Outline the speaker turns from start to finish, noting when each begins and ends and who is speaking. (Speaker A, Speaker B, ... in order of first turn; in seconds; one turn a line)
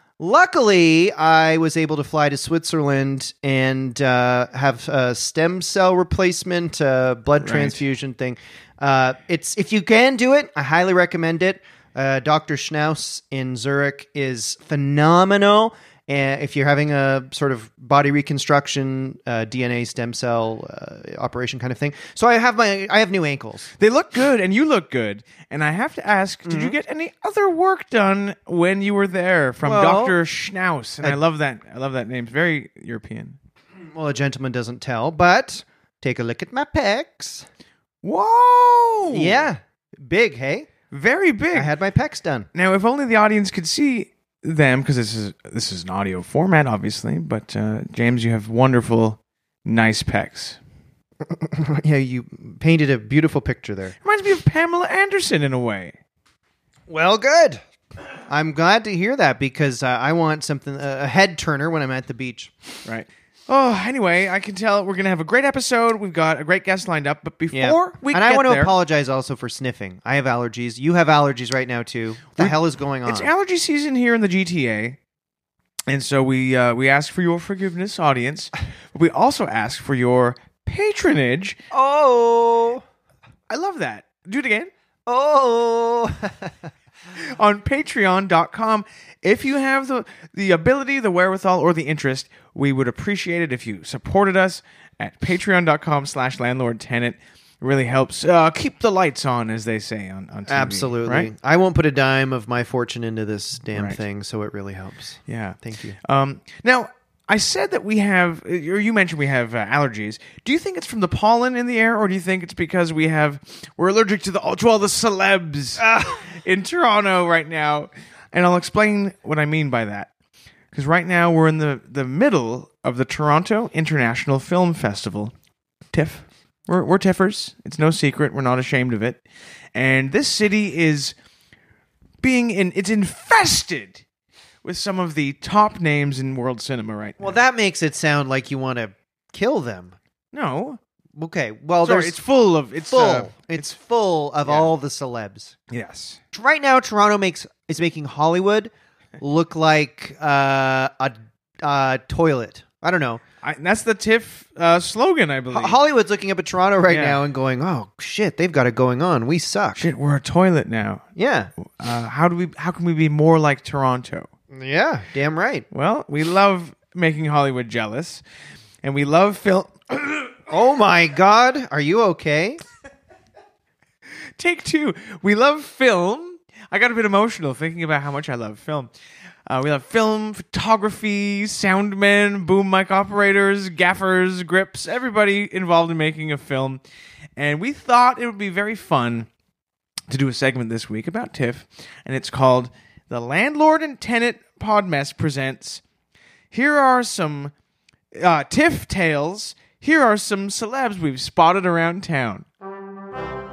Speaker A: 0.2-23.7
Speaker B: 7.4-7.8
Speaker B: 23.8-33.4
Speaker A: 26.4-26.8
Speaker A: 29.6-30.2
Speaker A: 33.9-37.5
Speaker B: 38.0-39.5
Speaker A: 39.1-40.7
Speaker B: 40.9-41.7
Speaker A: 41.5-42.5
Speaker B: 42.5-50.6
Speaker A: 51.2-54.0
Speaker B: 54.0-56.0
Speaker A: 56.9-57.6
Speaker A: 58.3-62.5
Speaker B: 62.8-68.7
Speaker A: 67.5-73.3
Speaker B: 72.4-75.0
Speaker B: 75.9-81.6
Speaker A: 81.7-82.8
Speaker B: 83.5-84.7
Speaker A: 85.0-86.7
Speaker B: 87.2-101.3
Speaker A: 100.5-106.0
Speaker B: 103.7-104.0
Speaker B: 105.3-120.1
Speaker A: 115.8-116.2
Speaker B: 120.7-125.3
Speaker B: 125.9-129.2
Speaker B: 129.7-131.1
Speaker B: 132.2-134.0
Speaker B: 134.6-137.4
Speaker A: 137.2-139.9
Speaker B: 140.3-140.8
Speaker A: 141.1-142.2
Speaker B: 141.8-143.7
Speaker A: 142.8-145.5
Speaker B: 144.4-144.7
Speaker B: 145.7-146.2
Speaker A: 146.3-153.2
Speaker B: 153.4-155.8
Speaker A: 155.5-159.9
Speaker B: 156.9-157.2
Speaker B: 159.8-161.0
Speaker A: 161.2-161.5
Speaker B: 161.6-164.3
Speaker A: 164.5-165.7
Speaker B: 165.7-168.2
Speaker B: 168.8-170.4
Speaker A: 170.5-172.6
Speaker B: 174.4-178.9
Speaker B: 179.5-186.8
Speaker B: 187.4-189.3
Speaker B: 190.1-195.8
Speaker B: 196.5-197.5
Speaker B: 198.1-202.4